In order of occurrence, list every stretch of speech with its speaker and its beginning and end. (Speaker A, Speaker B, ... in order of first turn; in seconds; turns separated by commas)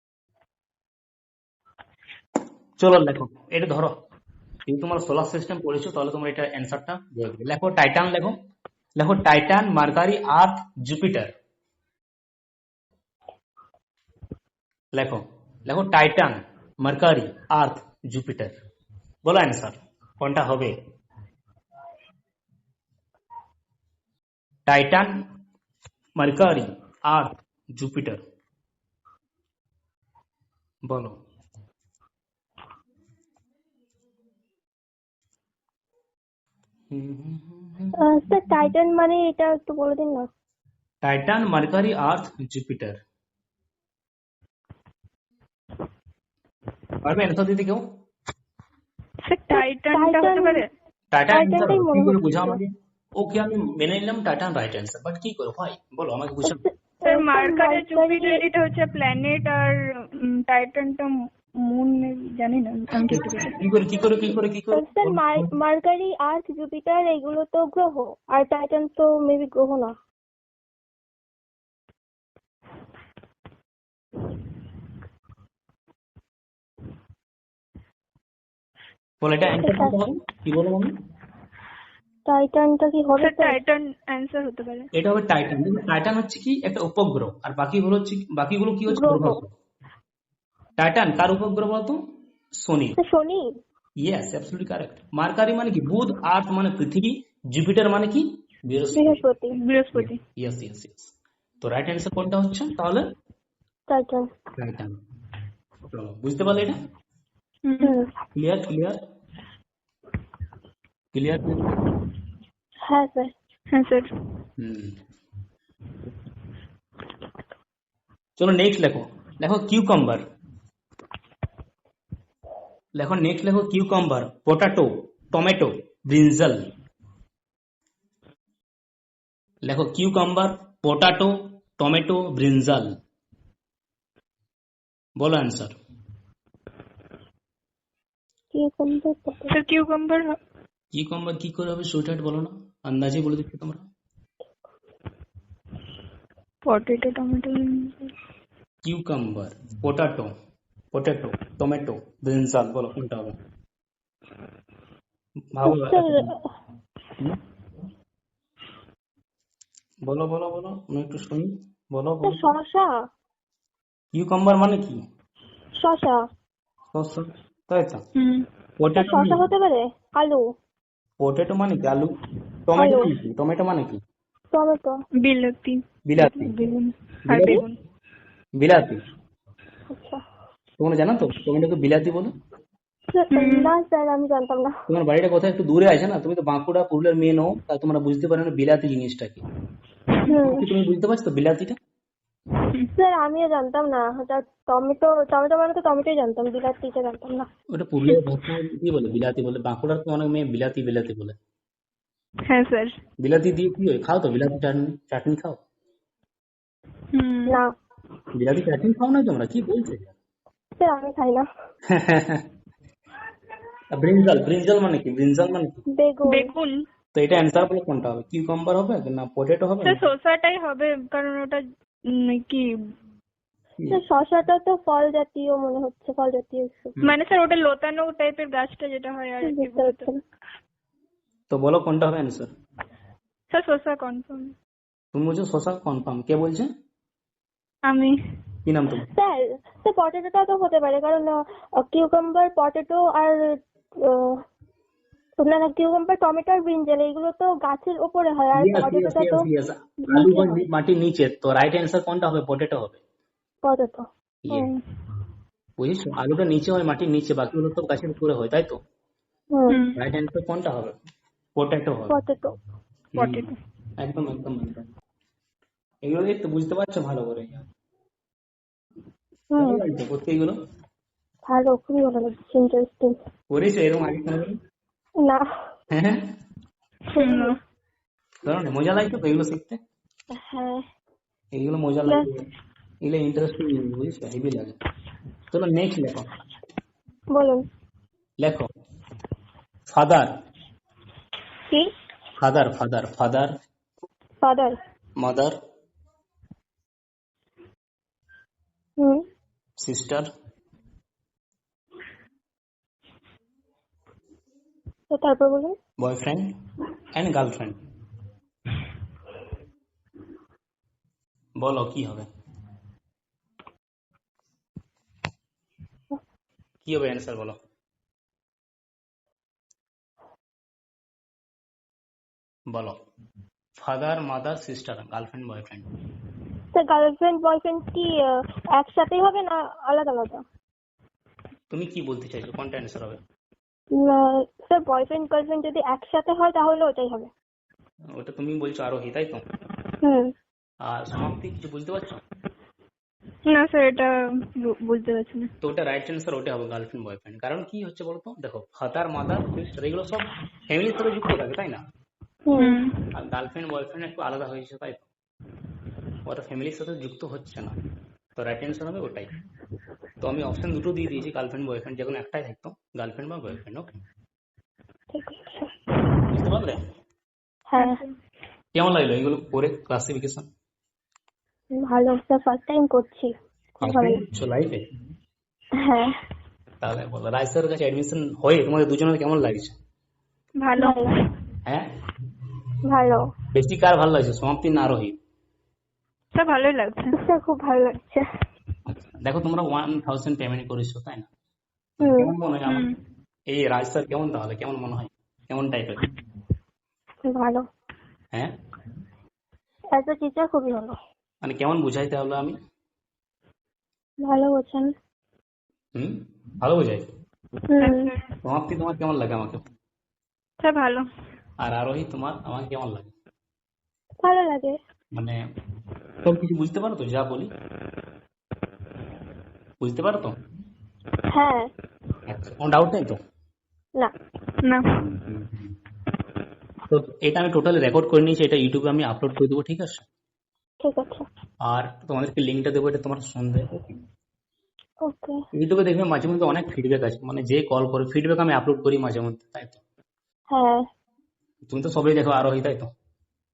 Speaker A: 2.8-3.9, Speaker A: 4.7-8.3, Speaker A: 8.9-11.3, Speaker A: 14.9-18.5, Speaker A: 19.2-20.7, Speaker A: 24.7-25.2, Speaker A: 26.2-28.2, Speaker A: 30.9-31.2, Speaker A: 36.9-38.0, Speaker B: 38.0-40.3, Speaker A: 41.0-43.0, Speaker A: 47.0-47.9, Speaker C: 49.2-50.7, Speaker B: 49.5-50.6, Speaker A: 51.1-56.6, Speaker B: 51.3-52.6, Speaker B: 56.4-58.5, Speaker C: 57.0-63.5, Speaker A: 63.1-65.5, Speaker B: 64.7-69.9, Speaker A: 79.2-80.9, Speaker B: 79.6-80.0, Speaker B: 82.2-83.6, Speaker C: 83.2-84.9, Speaker A: 84.9-89.5, Speaker B: 88.9-89.4, Speaker A: 90.8-92.0, Speaker A: 92.5-93.0, Speaker B: 93.0-93.5, Speaker A: 94.0-99.2, Speaker B: 98.9-99.6, Speaker C: 99.5-100.2, Speaker A: 99.9-103.0, Speaker B: 103.9-104.3, Speaker A: 104.6-105.0, Speaker A: 105.9-106.8, Speaker C: 107.6-108.0, Speaker B: 107.8-108.1, Speaker A: 108.3-109.0, Speaker A: 111.1-111.8, Speaker B: 112.8-113.3, Speaker C: 113.7-114.1, Speaker A: 114.6-115.0, Speaker A: 118.4-120.2, Speaker A: 122.9-126.7, Speaker A: 129.6-132.9, Speaker A: 135.2-135.8, Speaker B: 138.5-139.6, Speaker C: 139.5-140.4, Speaker A: 140.9-143.8, Speaker C: 146.6-148.1, Speaker A: 148.8-150.3, Speaker A: 150.9-153.3, Speaker A: 155.5-156.3, Speaker B: 155.6-156.4, Speaker A: 160.0-162.4, Speaker B: 162.2-162.9, Speaker A: 164.1-165.0, Speaker B: 165.8-166.2, Speaker A: 166.9-168.0, Speaker C: 168.2-168.5, Speaker A: 168.8-169.4, Speaker B: 169.0-170.4, Speaker A: 171.2-172.1, Speaker A: 172.7-174.0, Speaker B: 172.8-173.1, Speaker B: 174.5-175.0, Speaker C: 175.2-177.8, Speaker A: 176.1-176.5, Speaker A: 177.2-177.6, Speaker A: 178.6-179.0, Speaker B: 179.9-180.2, Speaker A: 180.8-182.3, Speaker B: 183.1-184.7, Speaker C: 183.3-183.7, Speaker A: 184.9-189.4, Speaker C: 190.1-190.4, Speaker B: 190.3-190.7, Speaker A: 190.3-191.8, Speaker B: 192.9-197.5, Speaker A: 197.7-201.4, Speaker C: 202.5-203.0, Speaker A: 203.2-205.6, Speaker C: 207.1-207.6, Speaker A: 208.3-210.2, Speaker B: 210.8-211.4, Speaker A: 211.9-212.4, Speaker A: 213.9-215.8, Speaker B: 215.9-216.5, Speaker C: 216.2-216.8, Speaker A: 217.1-220.1, Speaker C: 219.8-222.7, Speaker B: 223.9-226.9, Speaker C: 227.0-230.1, Speaker B: 229.4-230.2, Speaker A: 231.5-232.5, Speaker C: 233.5-234.5, Speaker A: 235.1-236.7, Speaker C: 237.9-238.2, Speaker A: 238.6-239.1, Speaker B: 239.1-244.4, Speaker B: 245.4-249.5, Speaker A: 248.5-253.0, Speaker B: 250.0-250.7, Speaker B: 253.6-254.1, Speaker A: 254.4-254.7, Speaker C: 254.5-254.8, Speaker A: 255.8-258.8, Speaker B: 259.5-259.8, Speaker C: 259.7-260.0, Speaker A: 259.9-261.0, Speaker A: 261.6-262.2, Speaker B: 262.1-262.6, Speaker A: 263.1-264.9, Speaker C: 263.2-263.5, Speaker A: 266.0-267.6, Speaker B: 269.5-269.8, Speaker A: 269.6-270.6, Speaker B: 271.5-273.1, Speaker A: 273.5-274.6, Speaker A: 275.9-276.3, Speaker B: 277.1-277.5, Speaker C: 277.1-277.6, Speaker A: 278.4-279.8, Speaker B: 280.3-280.8, Speaker A: 281.5-282.4, Speaker A: 283.0-284.8, Speaker A: 285.5-286.3, Speaker B: 287.3-287.6, Speaker A: 288.4-288.7, Speaker A: 289.9-290.3, Speaker A: 292.4-293.5, Speaker B: 294.4-294.8, Speaker A: 295.2-295.6, Speaker A: 299.8-300.3, Speaker B: 305.1-305.8, Speaker A: 306.0-306.5, Speaker A: 307.1-307.8, Speaker A: 311.6-312.3, Speaker A: 316.8-317.6, Speaker A: 322.7-323.0, Speaker A: 323.8-325.9, Speaker B: 326.7-330.4, Speaker A: 331.7-333.2, Speaker B: 333.9-337.3, Speaker A: 338.1-339.4, Speaker B: 340.0-340.3, Speaker A: 340.8-342.2, Speaker C: 343.5-345.5, Speaker A: 345.6-351.8, Speaker B: 352.5-352.8, Speaker C: 352.6-353.1, Speaker A: 353.1-355.1, Speaker A: 356.2-357.7, Speaker A: 358.4-359.3, Speaker A: 360.2-363.9, Speaker B: 365.1-365.7, Speaker A: 366.3-366.8, Speaker B: 367.7-368.0, Speaker C: 367.8-368.1, Speaker A: 368.7-370.5, Speaker B: 371.7-374.2, Speaker A: 373.8-374.8, Speaker B: 375.8-376.1, Speaker A: 376.8-379.8, Speaker C: 380.6-381.2, Speaker B: 380.8-381.1, Speaker B: 382.8-383.3, Speaker A: 383.5-385.2, Speaker C: 386.3-387.2, Speaker B: 387.1-388.2, Speaker A: 388.9-391.3, Speaker B: 392.0-392.3, Speaker A: 392.0-392.9, Speaker C: 392.7-392.9, Speaker A: 393.5-396.0, Speaker B: 397.3-397.6, Speaker B: 399.9-401.0, Speaker A: 401.4-402.6, Speaker B: 404.2-404.9, Speaker A: 405.9-407.1, Speaker B: 407.7-408.1, Speaker C: 407.8-408.3, Speaker A: 408.4-409.6, Speaker C: 410.6-411.1, Speaker A: 411.6-413.1, Speaker B: 414.2-414.8, Speaker A: 415.1-415.4, Speaker A: 416.2-417.5, Speaker A: 419.8-420.4, Speaker B: 421.3-421.7, Speaker A: 422.3-423.2, Speaker C: 424.6-425.0, Speaker A: 425.1-425.7, Speaker A: 426.9-430.1, Speaker B: 430.8-431.2, Speaker A: 431.6-433.8, Speaker B: 435.0-435.4, Speaker A: 435.5-439.8, Speaker B: 440.5-440.8, Speaker A: 441.7-442.9